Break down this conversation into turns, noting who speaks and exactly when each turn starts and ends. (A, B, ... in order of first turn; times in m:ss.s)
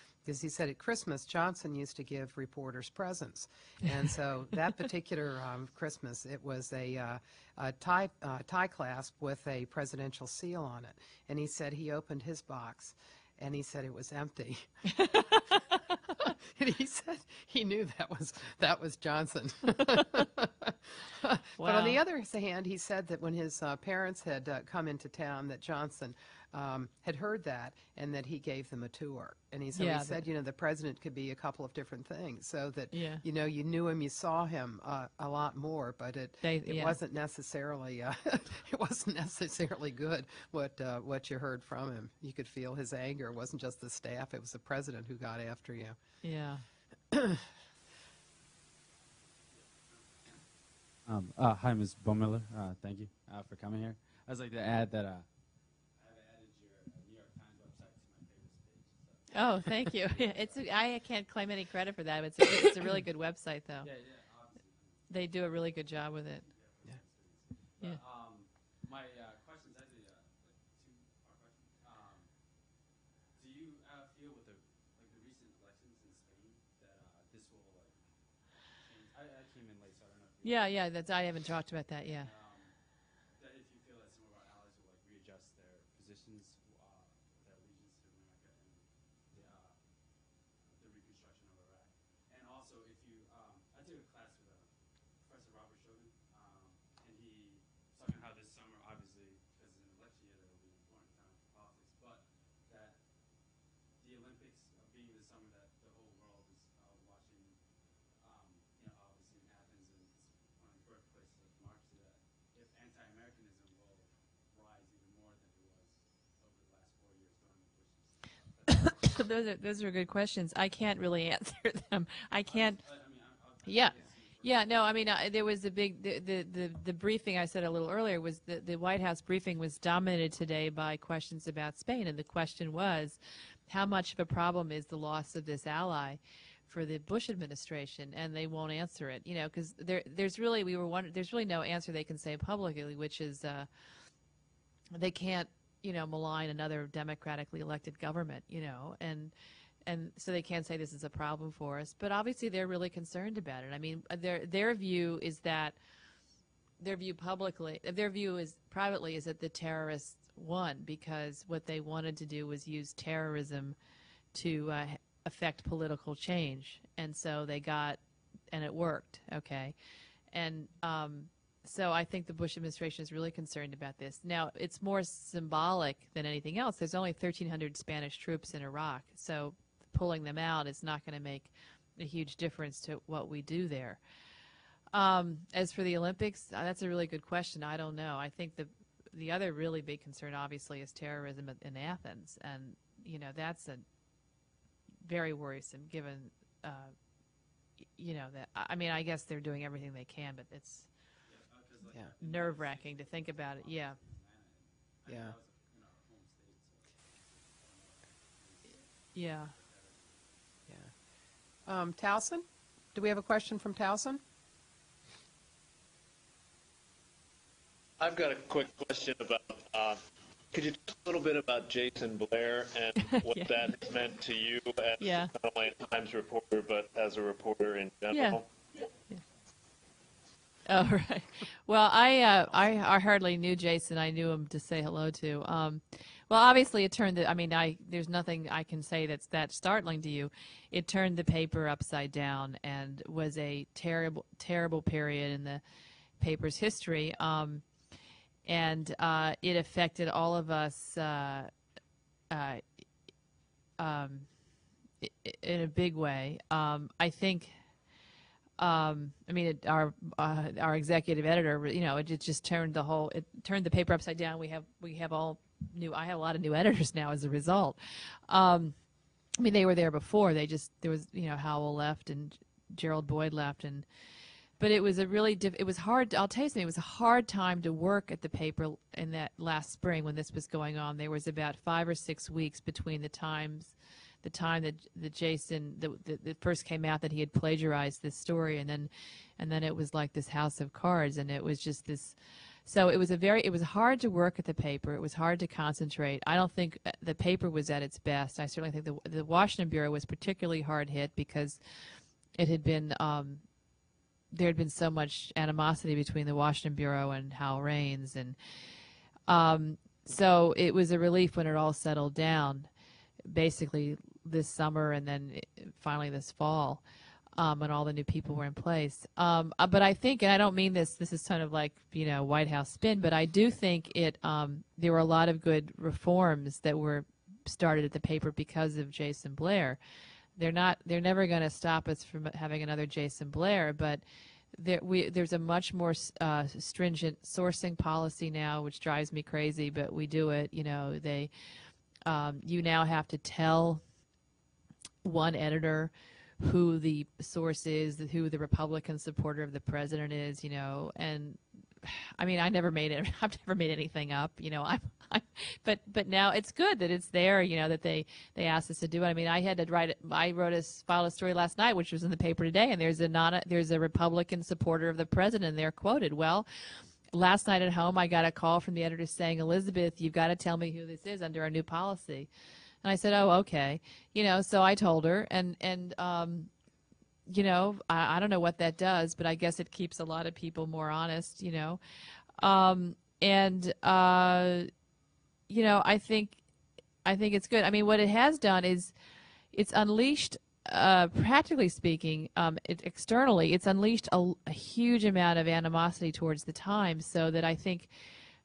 0:00.2-0:14.7 A
0:14.9-0:15.4 B
0:16.2-0:46.0 A
0:21.6-0:22.0 B
0:29.7-0:30.2 B
0:32.9-0:33.2 B
0:36.4-0:37.0 B
0:46.2-0:46.6 B
0:47.1-0:47.4 A
0:49.5-0:55.3 C
0:55.9-1:00.7 C
0:59.3-1:03.9 B
1:03.8-1:05.8 C
1:05.1-1:06.4 B
1:06.4-1:12.3 C
1:13.3-1:20.9 C
1:20.4-1:22.3 B
1:22.1-1:43.0 C
1:44.0-1:59.2 C
1:58.7-2:02.8 B
2:02.4-2:05.2 C
2:03.6-2:23.7 B
2:24.9-2:29.3 B
2:29.8-2:35.8 B
2:36.8-2:43.8 B
2:44.3-2:48.0 B
2:48.5-2:49.7 B
2:50.3-3:04.0 B
3:04.9-3:13.8 B
3:15.0-3:16.9 B
3:18.0-3:20.9 B
3:21.2-3:30.9 C
3:22.2-3:24.0 B
3:25.0-3:25.4 A
3:29.1-3:29.5 B
3:31.6-3:34.2 A
3:38.0-3:40.0 D
3:40.5-3:48.4 D
3:43.1-3:43.5 B
3:45.0-3:45.3 B
3:48.1-3:48.4 B
3:50.6-4:05.6 B
4:06.2-4:07.6 B
4:08.4-4:11.5 B
4:12.3-4:12.6 B
4:13.8-4:14.3 B
4:15.0-4:17.5 B
4:18.6-4:28.7 B
4:29.4-4:33.8 B
4:34.6-5:01.6 B
5:02.4-5:03.4 B
5:04.3-5:08.4 B
5:09.3-5:12.7 B
5:13.2-5:16.8 B
5:17.4-5:29.8 B
5:30.4-5:34.0 B
5:34.5-5:41.3 B
5:42.0-5:43.8 B
5:45.0-6:06.5 B
6:07.1-6:12.3 B
6:12.8-6:16.5 B
6:17.3-6:21.8 B
6:22.4-6:24.7 B
6:25.5-6:26.4 B
6:27.0-6:28.9 B
6:29.5-6:37.9 B